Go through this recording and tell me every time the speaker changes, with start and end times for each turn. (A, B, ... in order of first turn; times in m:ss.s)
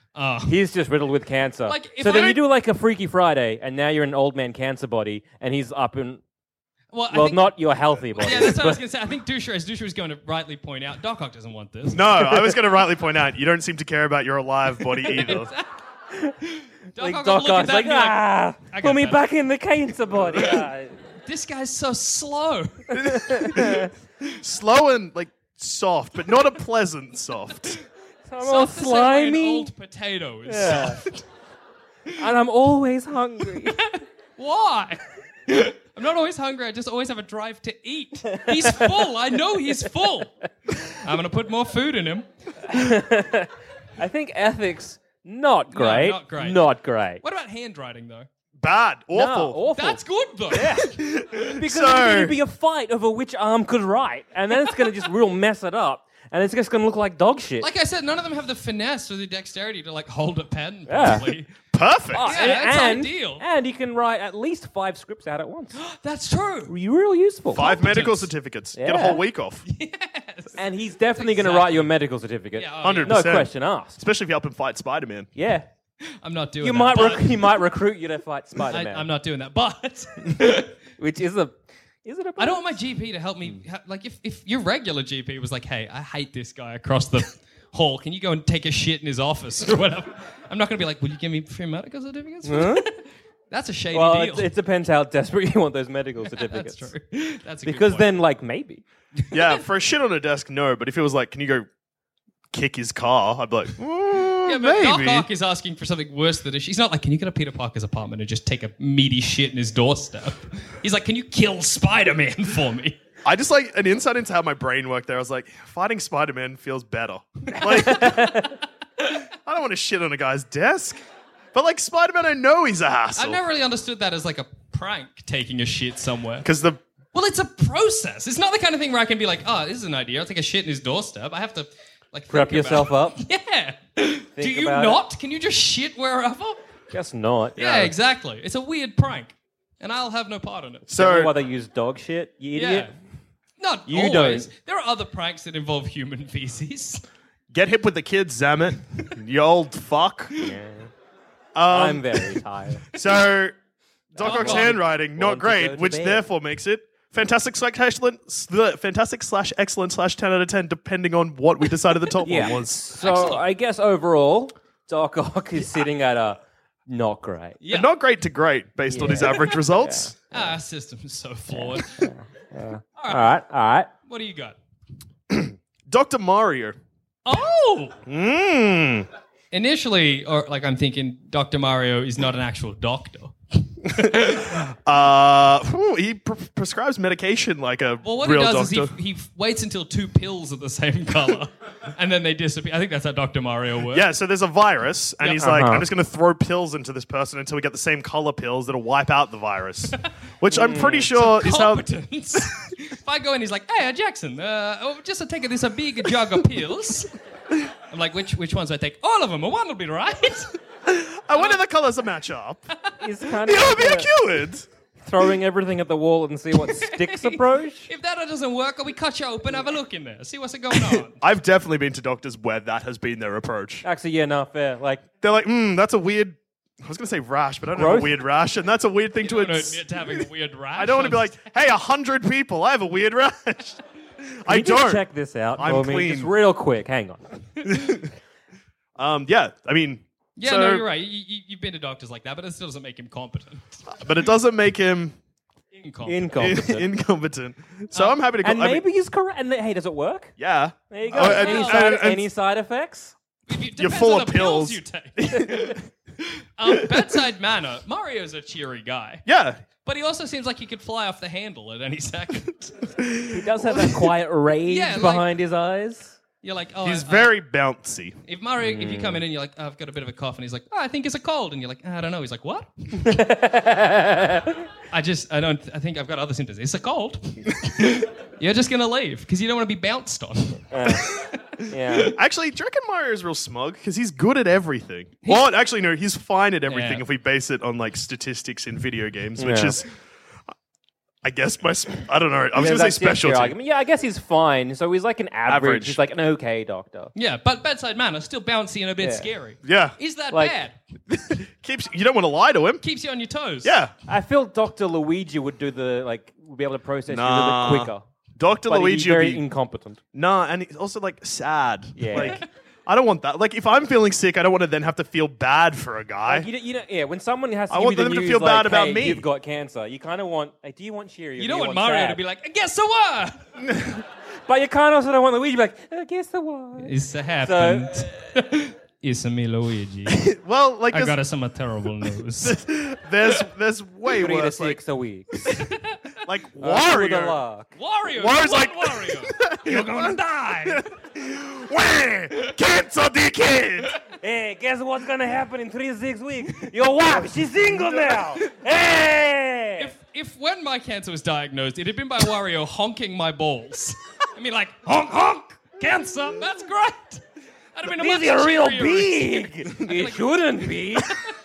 0:00.1-0:00.6 A
0:00.4-0:06.2 B
0:01.7-0:02.4 A
0:06.9-0:07.6 A
0:07.1-0:08.8 B
0:08.2-0:12.1 A
0:11.9-0:15.5 C
0:15.1-0:15.7 A
0:16.5-0:19.2 A
0:17.0-0:21.0 B
0:21.2-0:23.5 A
0:23.0-0:23.9 B
0:23.3-0:27.8 C
0:28.2-0:29.7 B
0:28.4-0:31.2 A
0:30.5-0:31.0 B
0:32.2-0:33.8 B
0:33.6-0:40.3 A
0:38.3-0:38.9 B
0:40.9-0:42.2 A
0:42.6-0:47.2 B
0:45.7-0:46.6 A
0:47.2-0:48.3 A
0:48.6-0:49.6 C
0:49.1-0:50.9 B
0:49.7-0:50.9 A
0:50.8-0:52.4 C
0:51.6-0:57.7 B
0:57.6-1:01.5 A
1:00.9-1:01.3 B
1:01.7-1:02.4 C
1:02.1-1:05.8 B
1:02.2-1:03.4 A
1:05.8-1:06.7 A
1:06.7-1:07.7 B
1:07.5-1:09.6 C
1:07.6-1:08.3 A
1:08.8-1:09.2 B
1:09.7-1:12.0 A
1:10.6-1:14.0 B
1:12.6-1:13.4 A
1:12.8-1:15.3 C
1:15.3-1:15.7 B
1:16.2-1:17.6 A
1:16.6-1:19.1 B
1:18.7-1:20.7 A
1:21.0-1:22.7 B
1:22.4-1:34.5 A
1:32.4-1:32.9 B
1:33.9-1:36.9 B
1:36.3-1:38.1 A
1:37.6-1:38.8 B
1:39.3-1:41.7 C
1:42.5-1:45.3 C
1:44.4-1:53.0 A
1:53.2-1:58.3 C
1:57.6-1:58.6 B
1:57.9-1:58.3 A
1:59.4-2:01.0 C
2:01.5-2:03.4 C
2:03.2-2:06.5 A
2:06.4-2:06.8 C
2:07.1-2:16.6 A
2:12.3-2:13.2 B
2:14.4-2:15.0 B
2:16.9-2:17.8 B
2:17.6-2:20.9 A
2:17.6-2:17.9 C
2:20.9-2:21.3 C
2:20.9-2:22.9 B
2:22.6-2:22.9 A
2:23.6-2:27.0 A
2:23.9-2:24.5 B
2:27.5-2:30.3 C
2:30.4-2:30.9 B
2:31.5-2:32.4 C
2:31.7-2:32.9 B
2:32.9-2:33.6 C
2:34.1-2:36.3 B
2:34.1-2:42.8 C
2:34.2-2:34.8 A
2:42.2-2:47.6 B
2:43.0-2:43.4 A
2:47.6-2:47.9 A
2:47.7-2:50.1 C
2:48.9-2:50.5 B
2:50.3-2:52.1 A
2:51.5-2:53.9 B
2:53.0-2:53.3 A
2:54.0-2:54.6 A
2:55.3-2:56.8 C
2:57.2-2:58.0 A
2:58.0-2:59.1 C
2:59.5-3:04.6 A
3:04.0-3:08.9 C
3:08.0-3:14.1 A
3:13.9-3:22.5 C
3:15.4-3:15.9 B
3:20.5-3:21.1 B
3:21.1-3:27.1 A
3:27.9-3:30.5 A
3:30.8-3:32.7 C
3:31.3-3:31.6 A
3:33.0-3:34.1 B
3:33.4-3:34.7 C
3:35.0-3:37.9 B
3:36.6-3:41.2 A
3:40.8-3:43.8 C
3:43.8-3:45.0 B
3:45.2-3:55.0 C
3:47.7-3:48.2 B
3:49.2-3:51.3 A
3:54.5-3:57.4 B
3:55.6-3:56.3 C
3:57.6-3:58.1 C
3:59.0-4:00.8 C
4:00.4-4:03.8 A
4:03.9-4:05.2 C
4:05.8-4:06.4 A
4:06.0-4:06.9 B
4:06.4-4:08.8 C
4:08.4-4:10.3 B
4:10.4-4:12.3 C
4:10.9-4:13.1 B
4:11.1-4:12.0 A
4:13.5-4:19.2 A
4:13.8-4:15.8 C
4:16.7-4:17.1 C
4:19.2-4:19.6 C
4:19.8-4:22.9 A
4:23.0-4:23.4 C
4:23.3-4:26.2 B
4:24.6-4:25.3 A
4:26.4-4:27.3 A
4:26.8-4:28.2 C
4:28.2-4:32.9 A
4:28.6-4:29.2 B
4:33.0-4:34.6 B
4:34.9-4:42.1 A
4:40.7-4:41.1 B
4:41.7-4:42.1 B
4:42.1-4:49.9 C
4:46.7-4:47.0 A
4:49.4-4:49.8 B
4:51.2-4:53.6 C
4:52.6-4:57.1 B
4:55.5-4:56.0 C
4:57.1-5:00.8 A
4:59.0-4:59.3 B
4:59.6-5:00.0 C
5:00.3-5:00.6 B
5:01.1-5:02.8 C
5:02.8-5:03.8 A
5:03.6-5:03.9 C
5:04.1-5:08.0 B
5:07.1-5:09.4 C
5:08.7-5:10.0 B
5:10.1-5:16.5 C
5:12.0-5:12.4 B
5:12.1-5:12.4 A
5:16.2-5:22.2 B
5:17.7-5:19.3 C
5:21.4-5:23.4 A
5:23.6-5:24.0 C
5:24.5-5:28.1 B
5:26.8-5:30.3 A
5:30.1-5:31.2 C
5:30.9-5:32.6 A
5:32.4-5:34.8 C
5:34.1-5:35.5 B
5:35.5-5:36.0 A
5:36.2-5:37.4 C
5:36.6-5:37.7 B
5:37.8-5:40.8 A
5:38.1-5:43.9 C
5:44.2-5:49.9 B
5:47.7-5:48.3 C
5:49.8-5:57.2 A
5:57.7-6:01.3 A
5:57.8-6:01.2 B